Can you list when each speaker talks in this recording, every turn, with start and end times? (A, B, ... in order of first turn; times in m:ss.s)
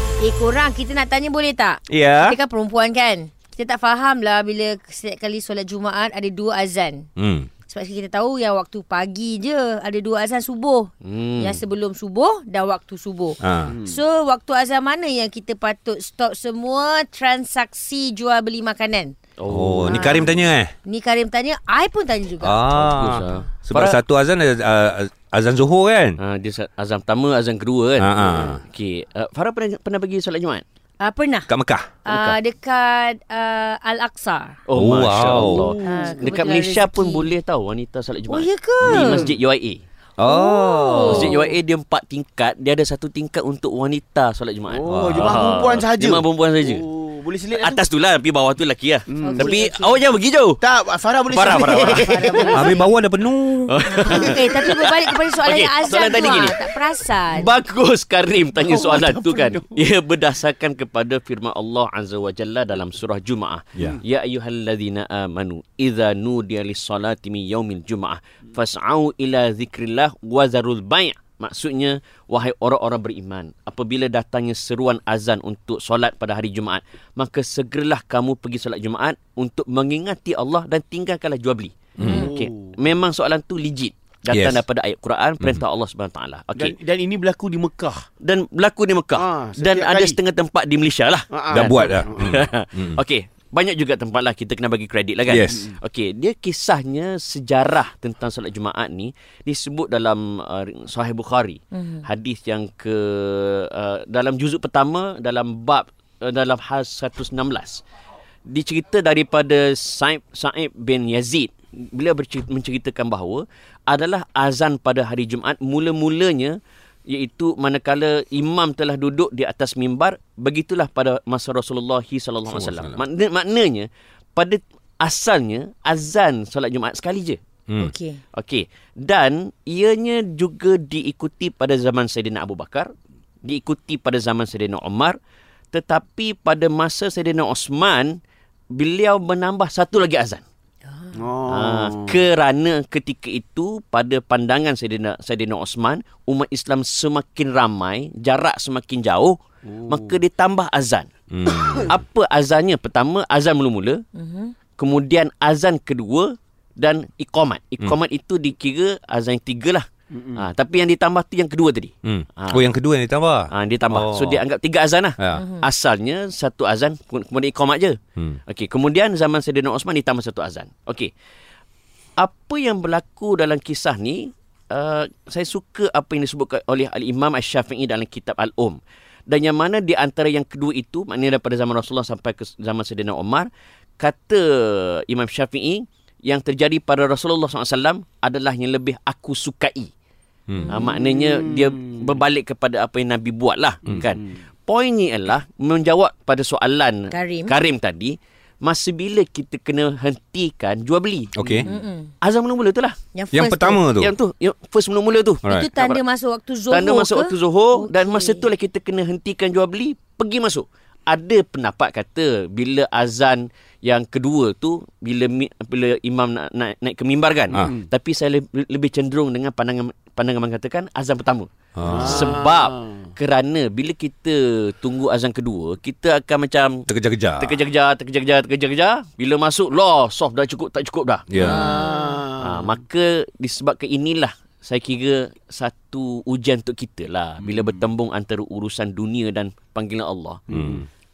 0:00.2-0:07.1 A
0:01.9-0:02.4 B
0:07.2-0:07.5 B
0:07.6-0:19.1 A
0:11.0-0:11.6 C
0:13.4-0:13.8 B
0:19.4-0:20.3 C
0:19.4-0:20.7 B
0:19.8-0:22.6 A
0:22.4-0:26.2 B
0:22.7-0:24.0 C
0:26.2-0:30.6 C
0:28.0-0:28.6 B
0:31.0-0:31.5 A
0:31.5-0:32.0 B
0:32.0-0:34.6 A
0:32.1-0:32.4 C
0:34.7-0:39.8 C
0:34.7-0:35.7 B
0:35.3-0:36.2 D
0:35.8-0:37.3 A
0:38.3-0:39.3 A
0:38.9-0:39.3 D
0:40.2-0:41.3 B
0:40.2-0:41.4 A
0:41.1-0:46.8 C
0:44.7-0:47.8 D
0:44.9-0:45.4 B
0:47.5-0:50.6 C
0:49.1-0:49.6 D
0:49.2-0:50.0 A
0:50.6-0:52.7 D
0:51.3-0:52.8 C
0:51.7-0:52.9 A
0:52.5-0:53.8 B
0:53.7-0:56.7 C
0:53.8-0:57.5 A
0:57.2-1:26.8 C
0:58.6-0:59.6 D
1:22.0-1:22.2 B
1:22.0-1:22.8 D
1:24.3-1:24.6 B
1:26.5-1:28.0 D
1:28.2-1:47.8 C
1:29.2-1:30.2 D
1:31.3-1:32.4 D
1:31.5-1:33.0 B
1:35.3-1:35.6 B
1:41.7-1:42.0 A
1:48.4-2:07.4 C
2:02.5-2:03.0 B
2:07.7-2:07.9 B
2:07.8-2:08.2 A
2:08.3-2:12.9 C
2:13.4-2:15.2 C
2:15.7-2:18.2 C
2:18.7-2:20.4 C
2:20.9-2:21.2 A
2:21.1-2:22.2 D
2:21.5-2:31.1 C
2:29.6-2:30.2 D
2:31.3-2:32.0 B
2:31.8-2:34.0 C
2:34.1-2:34.5 A
2:34.8-2:42.6 C
2:40.1-2:40.4 D
2:42.0-2:44.4 B
2:43.5-2:51.1 C
2:45.2-2:45.4 B
2:45.4-2:45.6 A
2:52.2-3:09.9 C
3:10.6-3:10.9 A
3:10.7-3:21.3 C
3:10.9-3:12.1 D
3:17.1-3:17.6 A
3:21.3-3:21.7 B
3:21.4-3:21.6 D
3:21.7-3:22.1 A
3:22.2-3:23.0 C
3:23.1-3:23.8 A
3:23.3-3:24.1 B
3:24.0-3:26.0 C
3:25.5-3:28.4 A
3:26.7-3:46.9 C
3:41.8-3:42.3 B
3:41.8-3:43.0 D
3:46.9-3:47.6 B
3:47.4-3:51.3 C
3:51.3-3:51.7 B
3:51.4-3:52.2 A
3:51.4-3:52.7 D
3:52.4-4:00.4 C
4:00.5-4:00.8 D
4:00.5-4:00.8 B